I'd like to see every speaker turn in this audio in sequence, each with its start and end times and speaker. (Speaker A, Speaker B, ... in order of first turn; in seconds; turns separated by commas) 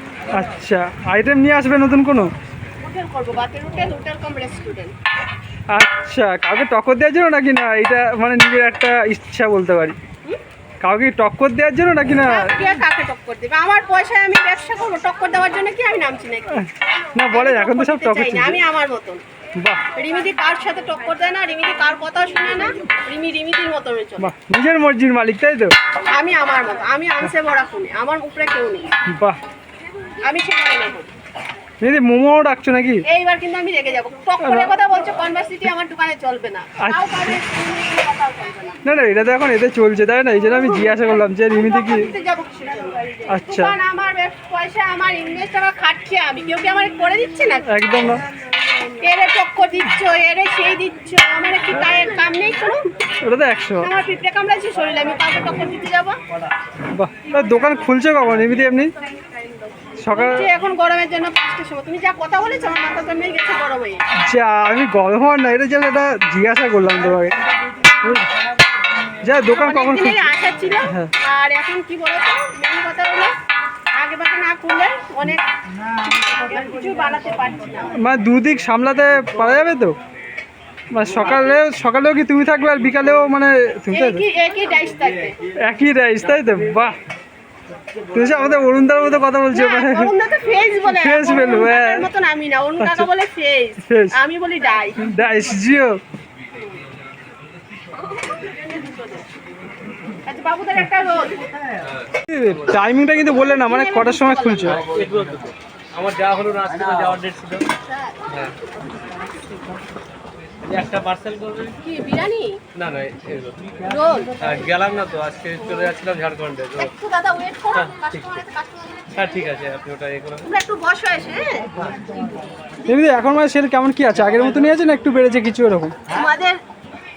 Speaker A: 0.3-2.3, Speaker B: 2.8-4.9, Speaker A: 5.7-9.9, Speaker A: 10.8-12.5, Speaker B: 12.2-19.2, Speaker A: 16.6-18.6, Speaker B: 19.9-24.3, Speaker A: 24.2-25.7, Speaker B: 26.1-28.9, Speaker A: 29.1-29.4, Speaker B: 30.2-31.1, Speaker A: 31.8-33.0, Speaker B: 33.0-38.8, Speaker A: 34.4-34.7, Speaker A: 36.8-37.2, Speaker A: 38.8-42.1, Speaker B: 40.5-47.7, Speaker A: 43.3-43.7, Speaker A: 47.7-48.2, Speaker B: 48.9-52.8, Speaker A: 53.2-53.9, Speaker B: 53.8-56.2, Speaker A: 56.9-58.9, Speaker A: 60.0-60.5, Speaker B: 60.1-64.0, Speaker A: 64.2-67.4, Speaker A: 68.0-68.3, Speaker A: 69.2-70.2, Speaker B: 69.4-73.3, Speaker B: 73.9-75.4, Speaker B: 76.0-78.0, Speaker A: 78.0-80.0, Speaker A: 80.9-84.2, Speaker B: 81.2-81.5, Speaker B: 83.9-85.3, Speaker A: 85.6-87.0, Speaker A: 88.1-90.1, Speaker B: 89.5-95.1, Speaker A: 90.9-92.0, Speaker A: 92.8-93.1, Speaker A: 93.8-94.2, Speaker A: 95.0-96.0, Speaker B: 97.9-99.2, Speaker B: 100.2-101.4, Speaker A: 102.2-104.8, Speaker B: 103.3-104.8, Speaker C: 104.8-107.7, Speaker B: 107.7-108.4, Speaker C: 108.3-108.5, Speaker C: 110.7-111.8, Speaker B: 111.8-112.6, Speaker C: 112.7-113.7, Speaker B: 113.8-114.3, Speaker C: 114.3-116.9, Speaker B: 116.8-119.5, Speaker C: 117.7-118.4, Speaker C: 119.1-120.5, Speaker B: 120.4-121.7, Speaker A: 122.9-126.0, Speaker B: 126.1-126.6